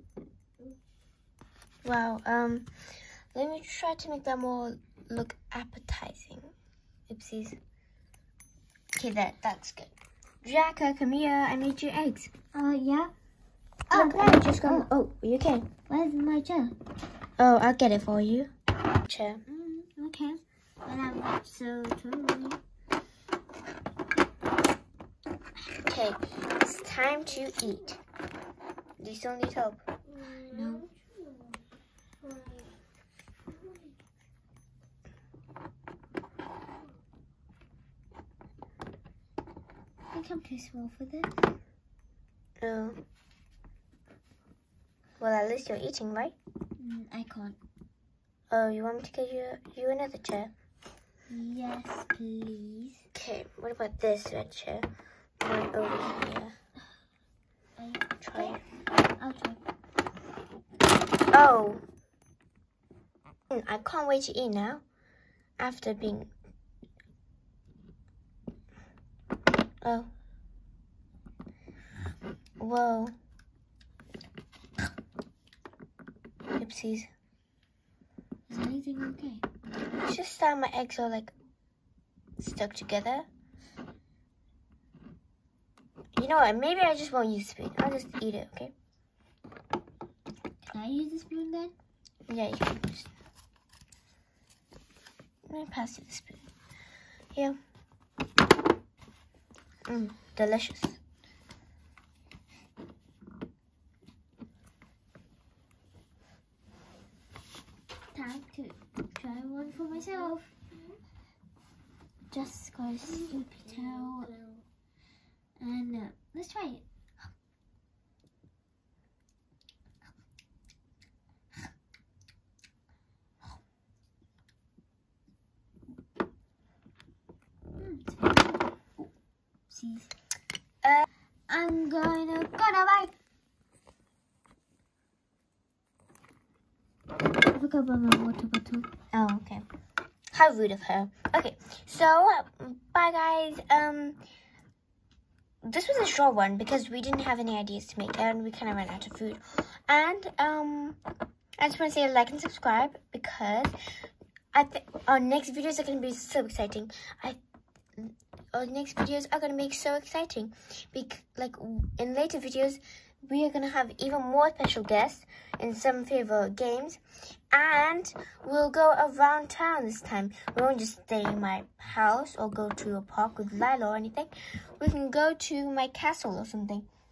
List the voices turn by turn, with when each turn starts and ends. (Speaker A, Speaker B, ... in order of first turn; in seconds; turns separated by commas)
Speaker A: 1.8-2.7, Speaker A: 3.3-6.5, Speaker A: 7.1-7.6, Speaker A: 8.9-9.9, Speaker A: 10.4-12.3, Speaker B: 12.5-13.1, Speaker B: 13.9-14.9, Speaker A: 13.9-15.7, Speaker B: 15.9-16.8, Speaker A: 17.4-18.5, Speaker A: 19.0-19.4, Speaker B: 19.5-22.6, Speaker A: 25.8-28.0, Speaker A: 29.0-29.8, Speaker B: 30.1-30.9, Speaker B: 40.1-41.3, Speaker A: 42.6-43.0, Speaker A: 45.2-46.3, Speaker B: 46.8-47.6, Speaker A: 48.5-50.5, Speaker B: 51.3-53.0, Speaker A: 53.1-54.9, Speaker A: 55.4-56.5, Speaker B: 57.8-58.6, Speaker A: 58.2-58.6, Speaker B: 59.2-59.6, Speaker A: 61.3-61.8, Speaker A: 63.5-64.8, Speaker A: 65.6-66.3, Speaker A: 69.8-70.1, Speaker A: 72.6-73.1, Speaker A: 76.6-77.1, Speaker B: 78.5-79.4, Speaker A: 80.0-81.3, Speaker A: 82.4-83.3, Speaker A: 86.2-88.7, Speaker B: 90.7-91.7, Speaker A: 92.3-93.1, Speaker A: 95.5-96.4, Speaker A: 99.9-101.0, Speaker B: 108.1-110.5, Speaker A: 112.3-113.9, Speaker B: 112.9-114.6, Speaker B: 115.6-116.8, Speaker B: 127.8-129.1, Speaker B: 129.7-130.1, Speaker B: 131.5-133.1, Speaker B: 137.5-138.9, Speaker A: 139.1-139.6, Speaker A: 140.3-144.2, Speaker A: 145.6-151.0, Speaker A: 151.6-153.7, Speaker A: 154.5-157.4, Speaker A: 158.0-167.0, Speaker A: 167.5-176.8